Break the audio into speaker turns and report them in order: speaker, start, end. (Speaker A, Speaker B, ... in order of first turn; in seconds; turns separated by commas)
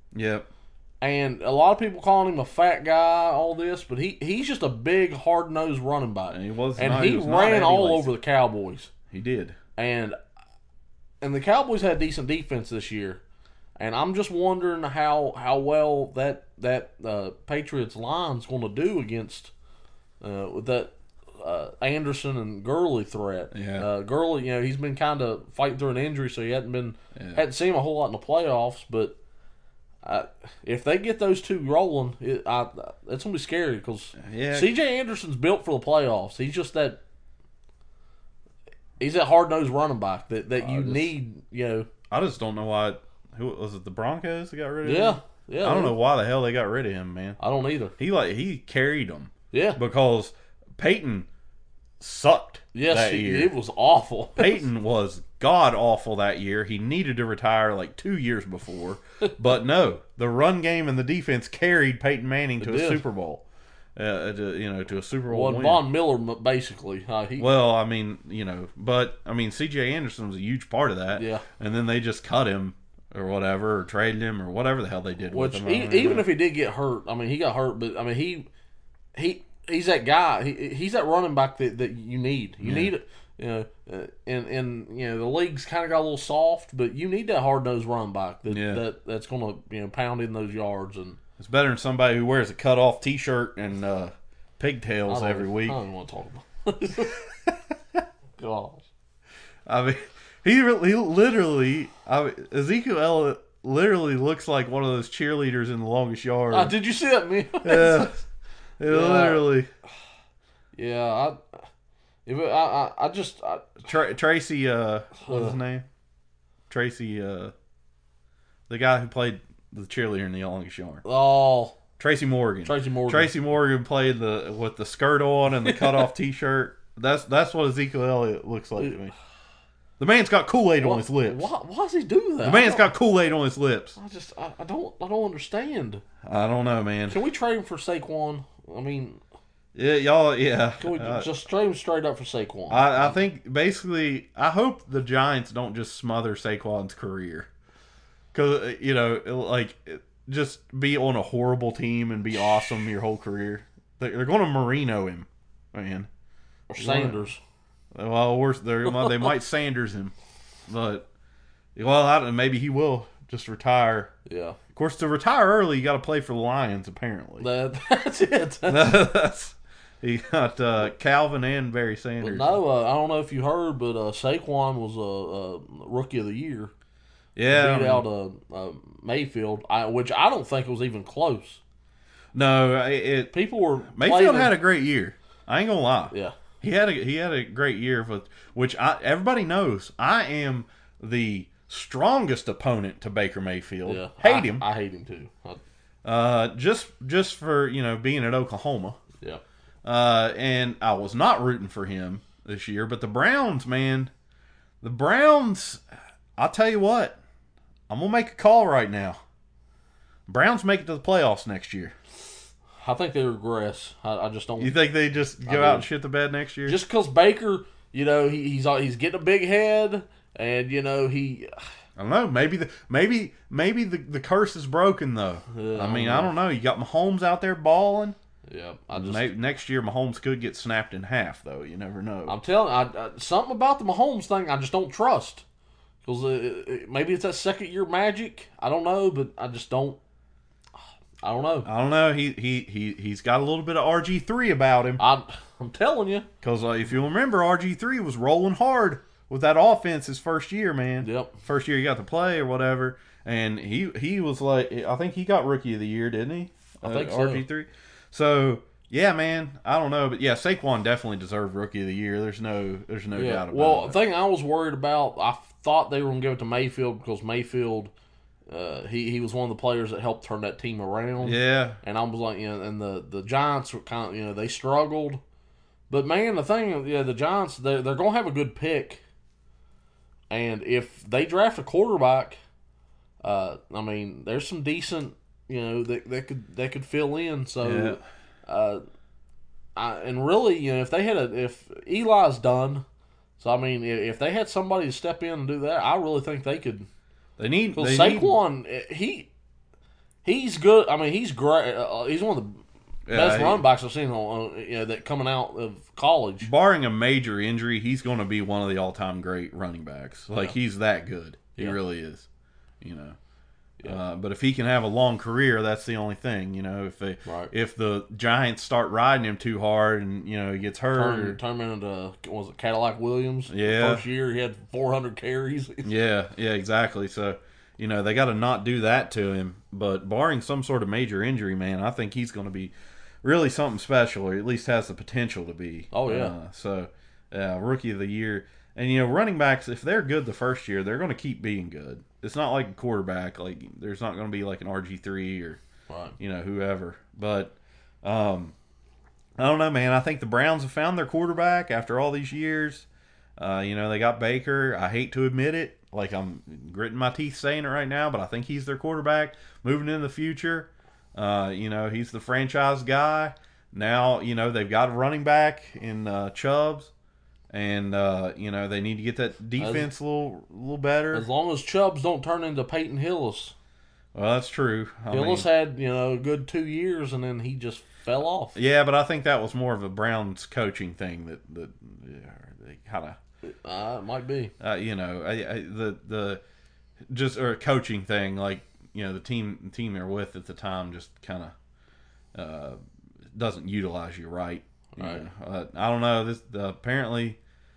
Speaker A: 0.1-0.5, Speaker B: 1.0-8.9, Speaker A: 6.3-8.1, Speaker A: 9.1-9.6, Speaker B: 9.8-10.2, Speaker B: 11.2-13.2, Speaker B: 13.8-19.5, Speaker B: 20.2-29.2, Speaker A: 23.5-23.9, Speaker A: 27.1-27.4, Speaker B: 30.0-37.0, Speaker A: 34.2-34.8, Speaker B: 39.0-41.9, Speaker A: 40.6-41.1, Speaker A: 42.1-47.4, Speaker B: 44.8-46.0, Speaker B: 47.4-47.9, Speaker A: 48.0-51.3, Speaker B: 49.5-49.8, Speaker A: 52.0-53.5, Speaker B: 52.7-54.6, Speaker A: 54.4-63.4, Speaker B: 62.6-63.0, Speaker A: 64.0-65.8, Speaker B: 65.3-67.5, Speaker A: 67.4-76.3, Speaker B: 71.1-71.4, Speaker B: 75.3-78.5, Speaker B: 79.1-91.2, Speaker A: 82.6-82.9, Speaker A: 88.5-88.8, Speaker A: 91.4-95.8, Speaker B: 95.1-97.2, Speaker A: 97.5-98.0, Speaker B: 98.4-98.8, Speaker A: 99.7-106.7, Speaker B: 106.5-108.2, Speaker A: 107.6-108.2, Speaker A: 108.8-109.7, Speaker B: 108.9-109.5, Speaker B: 110.7-111.6, Speaker B: 112.2-113.8, Speaker A: 113.8-115.8, Speaker B: 115.2-115.6, Speaker A: 116.7-117.5, Speaker A: 118.7-121.0, Speaker B: 121.0-121.8, Speaker A: 122.0-129.1, Speaker B: 122.6-123.3, Speaker B: 125.6-126.1, Speaker A: 130.0-131.5, Speaker B: 130.8-132.9, Speaker A: 132.4-134.0, Speaker B: 134.0-136.0, Speaker A: 136.2-137.2, Speaker B: 137.1-139.2, Speaker A: 139.7-141.3, Speaker B: 140.8-143.2, Speaker A: 142.7-147.5, Speaker A: 148.3-156.1, Speaker B: 156.7-157.4, Speaker A: 156.8-157.2, Speaker A: 157.9-160.1, Speaker A: 160.7-161.1, Speaker A: 161.8-164.1, Speaker B: 164.2-164.6, Speaker A: 164.7-167.5, Speaker B: 167.4-168.9, Speaker A: 168.7-172.6, Speaker B: 172.2-176.7, Speaker A: 177.3-178.0, Speaker B: 177.5-181.6, Speaker A: 182.3-183.3, Speaker B: 183.3-184.5, Speaker A: 183.9-194.6, Speaker B: 193.8-195.6, Speaker A: 196.0-199.0, Speaker A: 199.8-204.1, Speaker A: 204.8-205.8, Speaker A: 206.4-207.2, Speaker A: 207.9-209.2, Speaker A: 210.3-211.9, Speaker B: 212.8-214.8, Speaker A: 214.6-216.8, Speaker B: 215.4-215.9, Speaker B: 216.7-221.5, Speaker A: 222.0-228.2, Speaker B: 225.5-226.3, Speaker B: 228.5-229.3, Speaker A: 228.9-232.3, Speaker B: 232.2-235.4, Speaker B: 236.0-240.0, Speaker B: 241.2-241.7, Speaker A: 241.6-245.0, Speaker B: 245.0-246.3, Speaker A: 246.4-264.0, Speaker B: 251.0-251.3, Speaker B: 256.8-257.4, Speaker B: 263.1-267.9, Speaker B: 268.5-275.2, Speaker A: 271.2-271.8, Speaker B: 275.9-279.0, Speaker B: 280.3-282.4, Speaker B: 283.2-288.8, Speaker A: 287.6-288.0, Speaker B: 289.8-292.8, Speaker B: 293.4-296.9, Speaker A: 297.4-298.4, Speaker B: 297.7-299.3, Speaker B: 300.2-306.5, Speaker A: 303.1-303.6, Speaker A: 306.4-312.3, Speaker A: 312.8-313.2, Speaker A: 313.8-321.4, Speaker B: 317.2-317.5, Speaker B: 320.9-325.9, Speaker A: 323.5-324.0, Speaker A: 325.8-345.6, Speaker B: 335.9-336.3, Speaker B: 345.9-346.1, Speaker A: 346.2-348.5, Speaker A: 349.4-352.9, Speaker A: 353.4-366.9, Speaker A: 367.5-371.3, Speaker B: 369.6-369.9, Speaker B: 371.1-373.5, Speaker A: 374.1-375.5, Speaker B: 375.1-378.6, Speaker A: 378.5-383.2, Speaker B: 383.4-384.5, Speaker A: 384.6-386.4, Speaker A: 387.1-391.5, Speaker A: 392.3-392.8, Speaker A: 393.3-397.4, Speaker B: 394.9-395.2